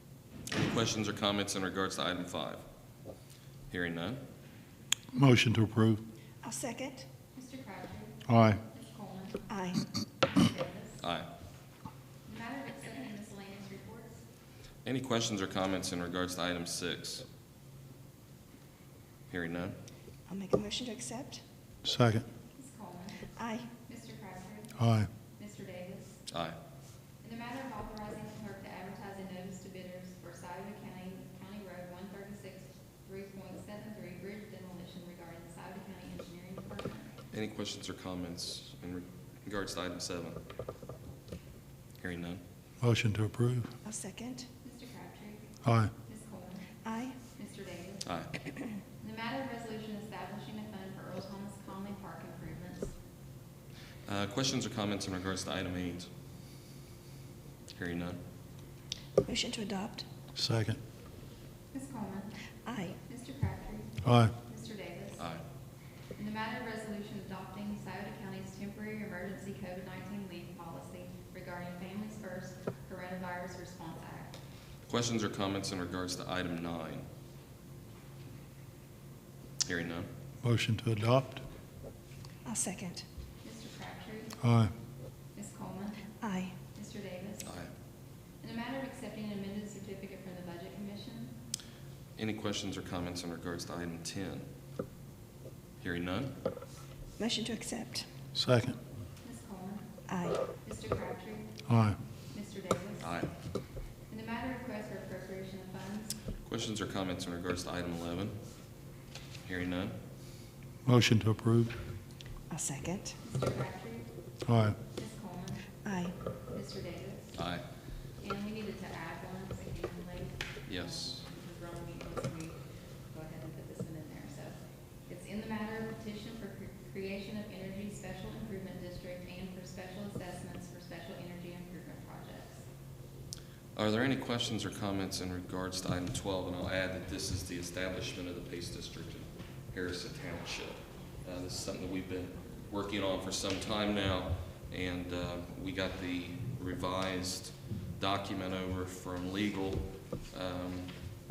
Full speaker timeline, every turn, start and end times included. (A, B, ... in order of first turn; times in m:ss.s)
0:00.5-0:02.6 A
0:03.7-0:04.2 A
0:05.1-0:06.0 B
0:06.4-0:07.1 C
0:07.3-0:09.5 D
0:08.3-0:08.6 B
0:09.5-0:09.8 C
0:10.2-0:11.0 D
0:11.0-0:11.3 A
0:12.2-0:14.2 D
0:14.8-0:17.2 A
0:19.3-0:19.8 A
0:20.3-0:21.4 C
0:21.8-0:22.2 B
0:22.6-0:23.3 D
0:23.4-0:23.7 C
0:23.8-0:24.8 D
0:24.8-0:25.1 B
0:25.4-0:26.2 D
0:26.3-0:26.6 A
0:27.2-0:37.2 D
0:37.3-0:40.4 A
0:42.0-0:42.4 A
0:42.8-0:43.7 B
0:43.8-0:44.5 C
0:44.6-0:45.5 D
0:45.6-0:45.9 B
0:46.0-0:46.7 D
0:46.8-0:47.2 C
0:47.3-0:48.0 D
0:49.0-0:53.0 D
0:54.0-0:56.1 A
0:57.8-0:58.2 A
0:59.2-1:00.0 C
1:00.4-1:00.8 B
1:01.7-1:02.4 D
1:02.6-1:03.0 C
1:03.0-1:05.2 D
1:04.0-1:04.3 B
1:06.2-1:14.4 D
1:14.8-1:17.0 A
1:19.6-1:20.1 A
1:20.4-1:21.4 B
1:22.4-1:23.0 C
1:23.4-1:24.4 D
1:24.4-1:24.7 B
1:25.3-1:26.1 D
1:26.2-1:26.6 C
1:26.7-1:27.5 D
1:27.4-1:27.7 A
1:28.4-1:31.3 D
1:32.2-1:34.4 A
1:35.8-1:36.4 A
1:37.2-1:38.1 C
1:38.3-1:38.8 B
1:39.2-1:39.8 D
1:40.1-1:40.4 C
1:40.6-1:41.6 D
1:41.7-1:42.0 B
1:42.3-1:43.2 D
1:43.0-1:43.3 A
1:44.1-1:46.2 D
1:46.4-1:48.4 A
1:49.4-1:50.0 A
1:50.8-1:51.7 B
1:52.5-1:53.2 C
1:53.2-1:54.1 D
1:54.4-1:54.8 B
1:54.9-1:55.6 D
1:55.8-1:56.1 C
1:56.5-1:57.4 D
1:57.3-1:57.6 A
1:58.2-2:02.6 D
2:00.7-2:01.1 A
2:03.1-2:04.6 D
2:05.1-2:12.6 D
2:13.8-2:30.9 A